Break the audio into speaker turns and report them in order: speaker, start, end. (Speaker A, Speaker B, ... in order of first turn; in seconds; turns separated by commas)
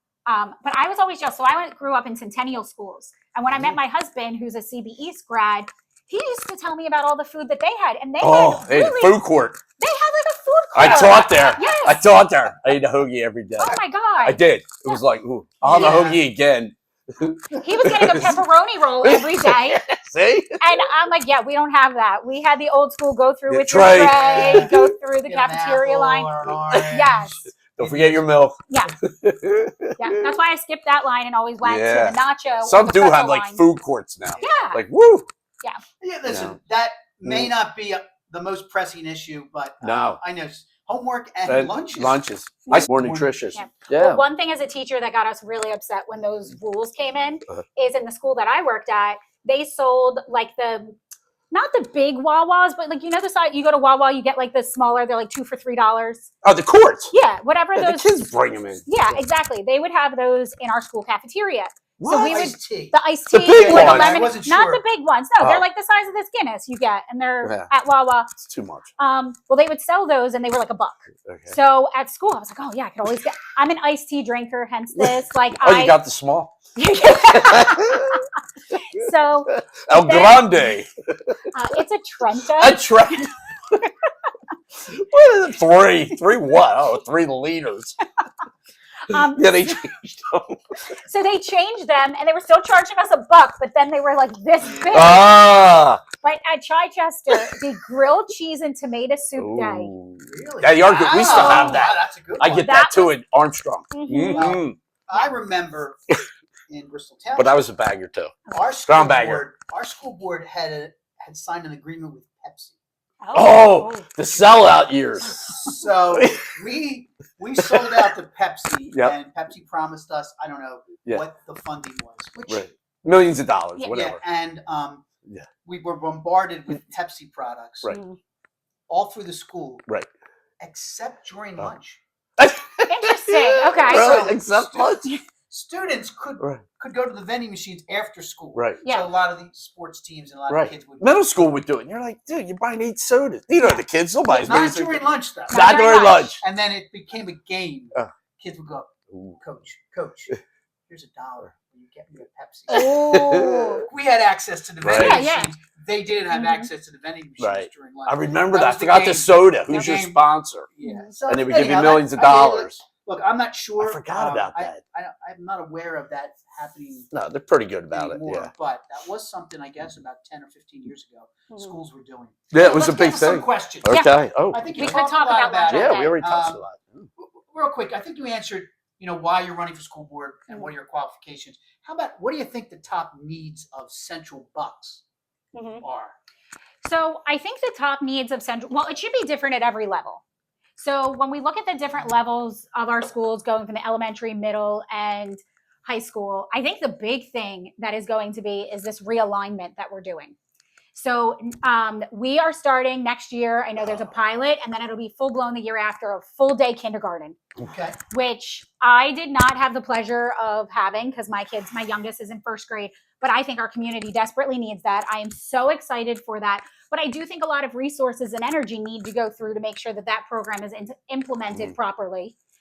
Speaker A: 0.2-9.2, Speaker B: 3.5-3.8, Speaker B: 8.2-9.6, Speaker A: 9.8-12.0, Speaker B: 10.7-18.4, Speaker A: 13.6-15.0, Speaker C: 15.6-16.2, Speaker A: 17.5-19.8, Speaker B: 19.0-20.9, Speaker A: 20.6-27.5, Speaker B: 23.5-24.7, Speaker C: 24.0-28.2, Speaker B: 26.7-30.3, Speaker A: 30.0-33.6, Speaker B: 31.6-35.3, Speaker C: 34.4-34.6, Speaker A: 34.4-34.8, Speaker C: 36.0-43.4, Speaker B: 36.3-36.6, Speaker B: 37.2-37.5, Speaker B: 39.8-40.2, Speaker B: 41.5-44.2, Speaker A: 42.7-42.9, Speaker A: 43.5-51.0, Speaker A: 51.5-56.3, Speaker B: 56.4-57.1, Speaker A: 57.1-58.2, Speaker B: 57.7-59.2, Speaker A: 58.8-68.3, Speaker B: 62.0-62.4, Speaker C: 62.1-63.0, Speaker B: 63.3-64.2, Speaker C: 63.5-64.8, Speaker B: 65.4-65.6, Speaker B: 67.4-67.7, Speaker B: 68.4-68.9, Speaker A: 69.0-76.0, Speaker B: 71.2-71.6, Speaker B: 75.0-76.5, Speaker A: 76.8-80.7, Speaker B: 77.0-80.9, Speaker A: 81.5-82.9, Speaker B: 82.5-83.8, Speaker B: 84.9-88.0, Speaker A: 89.1-89.8, Speaker B: 89.1-90.6, Speaker A: 90.9-95.4, Speaker C: 94.6-95.3, Speaker B: 94.9-96.0, Speaker A: 96.2-99.9, Speaker B: 97.3-97.6, Speaker B: 99.4-104.8, Speaker C: 100.2-102.7, Speaker A: 101.1-101.9, Speaker A: 102.5-103.2, Speaker A: 103.9-104.5, Speaker C: 104.2-106.0, Speaker C: 106.7-107.6, Speaker B: 107.3-109.5, Speaker C: 108.5-112.8, Speaker A: 113.2-114.1, Speaker B: 113.3-115.6, Speaker C: 114.4-122.7, Speaker B: 116.1-116.5, Speaker B: 117.6-118.1, Speaker B: 122.5-124.2, Speaker A: 123.8-124.0, Speaker C: 123.9-125.0, Speaker C: 125.6-128.0, Speaker A: 127.9-128.2, Speaker C: 128.9-129.9, Speaker C: 130.6-132.0, Speaker B: 132.4-135.2, Speaker A: 132.8-134.3, Speaker C: 133.8-141.2, Speaker B: 138.5-138.8, Speaker A: 138.8-139.1, Speaker B: 140.5-146.4, Speaker C: 144.3-150.3, Speaker A: 145.5-146.3, Speaker B: 149.1-149.4, Speaker C: 150.9-167.1, Speaker A: 152.7-153.8, Speaker B: 152.7-153.8, Speaker B: 154.8-155.2, Speaker A: 154.9-155.6, Speaker A: 156.3-156.7, Speaker B: 157.4-160.7, Speaker A: 160.8-161.1, Speaker B: 161.2-162.8, Speaker B: 163.8-164.8, Speaker B: 167.1-168.5, Speaker C: 167.9-176.6, Speaker A: 171.5-171.8, Speaker B: 172.5-175.0, Speaker A: 174.7-176.2, Speaker B: 175.7-177.1, Speaker C: 177.2-185.0, Speaker A: 185.5-185.8, Speaker C: 185.8-186.1, Speaker A: 186.8-190.2, Speaker A: 190.8-200.3, Speaker A: 200.9-207.4, Speaker B: 203.8-204.1, Speaker C: 207.6-208.0, Speaker A: 208.1-222.3